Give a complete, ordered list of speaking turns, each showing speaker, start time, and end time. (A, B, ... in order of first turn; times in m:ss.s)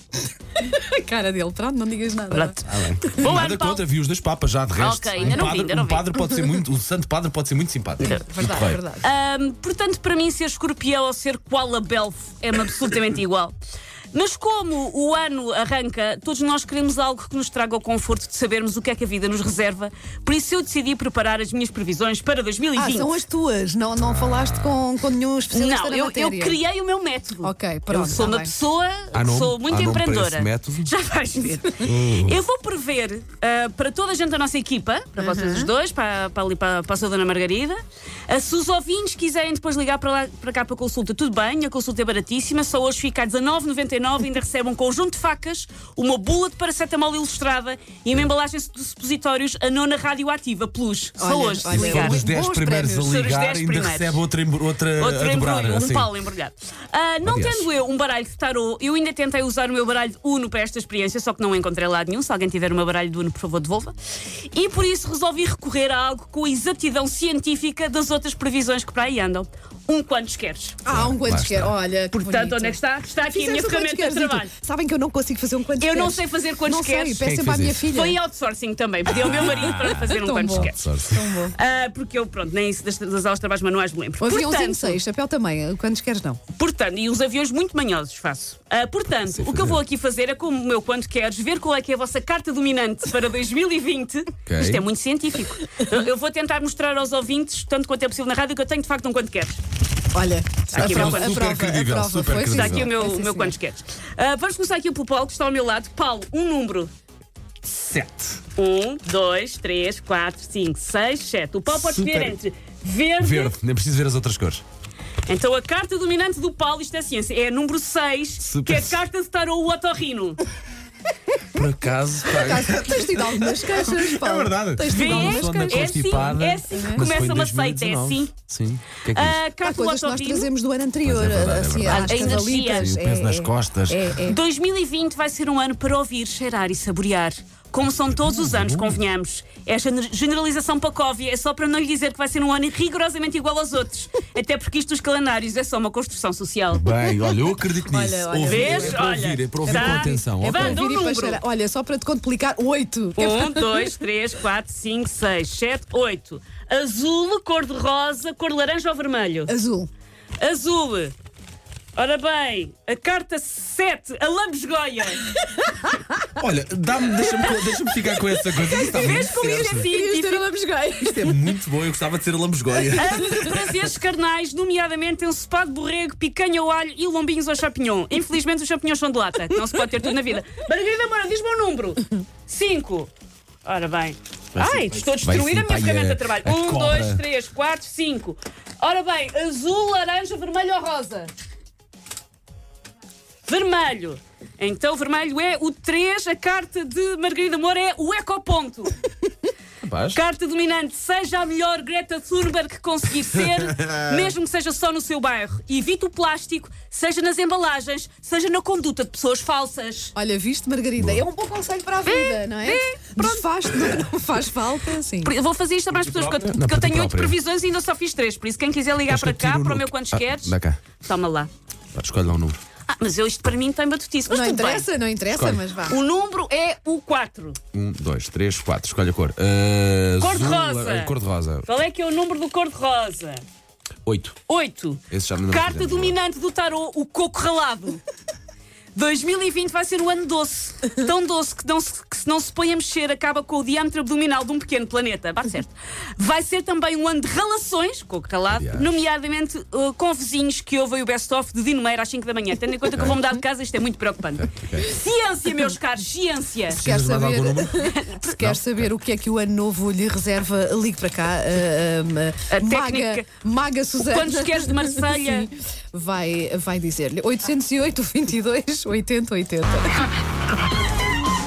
0:00.5-0:03.4 A
0:02.3-0:02.6 B
0:02.6-0:08.8 C
0:03.1-0:03.8 B
0:04.7-0:06.2 B
0:05.2-0:05.5 A
0:06.2-0:06.6 A
0:08.0-0:09.1 A
0:08.0-0:08.3 B
0:09.0-0:13.5 B
0:14.1-0:23.1 B
0:22.8-0:26.6 A
0:25.5-0:52.2 B
0:27.4-0:28.5 A
0:29.1-0:30.9 C
0:31.8-0:32.4 C
0:35.2-0:35.7 A
0:51.2-0:53.2 A
0:51.7-0:56.1 C
0:53.0-0:54.2 B
0:55.0-1:03.9 B
0:57.2-0:57.6 C
1:04.5-1:10.8 B
1:10.8-1:18.2 A
1:11.0-1:11.7 C
1:12.1-1:14.5 B
1:15.8-1:17.3 B
1:17.3-1:17.8 C
1:17.9-1:21.0 B
1:19.3-1:21.5 A
1:21.5-1:25.0 B
1:24.2-1:26.4 A
1:26.5-1:39.6 B
1:40.1-1:43.6 A
1:40.7-1:41.4 B
1:41.0-1:42.8 C
1:42.5-1:46.9 B
1:47.6-1:48.4 C
1:48.6-1:53.6 B
1:51.8-1:52.3 C
1:53.2-1:54.6 C
1:55.2-2:00.4 B
1:58.4-1:58.9 C
2:01.5-2:09.4 C
2:02.3-2:07.1 A
2:04.9-2:08.3 B
2:09.0-2:10.5 B
2:09.5-2:14.4 A
2:11.1-2:14.0 C
2:11.8-2:13.0 B
2:14.2-2:26.8 B
2:26.8-2:30.6 C
2:27.2-2:29.1 A
2:28.4-2:31.4 B
2:29.6-2:33.9 A
2:33.2-2:39.5 B
2:39.5-2:39.9 A
2:40.4-2:41.1 B
2:42.0-2:45.3 B
2:45.4-2:46.3 A
2:46.4-2:49.9 C
2:47.3-2:47.6 A
2:48.2-2:51.6 A
2:48.8-2:50.5 B
2:51.3-2:53.4 C
2:52.9-2:53.6 A
2:52.9-3:03.1 B
3:03.6-3:11.3 B
3:04.6-3:07.2 C
3:13.4-3:19.0 B
3:19.8-3:20.2 C
3:20.1-3:30.1 B
3:23.8-3:24.2 C
3:30.2-3:35.3 A
3:32.0-3:34.0 B
3:35.2-3:41.5 B
3:36.0-3:37.3 C
3:39.1-3:40.8 C
3:41.9-3:42.6 C
3:42.9-3:44.8 B
3:44.3-3:46.0 A
3:45.4-3:45.6 C
3:45.8-3:47.6 B
3:47.7-3:51.7 C
3:50.2-3:53.4 B
3:54.0-3:54.3 C
3:54.5-3:58.0 B
3:55.1-3:56.2 C
3:58.9-4:16.8 B
4:08.5-4:08.9 C
4:14.5-4:14.8 C
4:16.7-4:30.1 A
4:16.8-4:18.8 C
4:17.8-4:18.4 B
4:22.5-4:23.2 B
4:24.1-4:25.5 B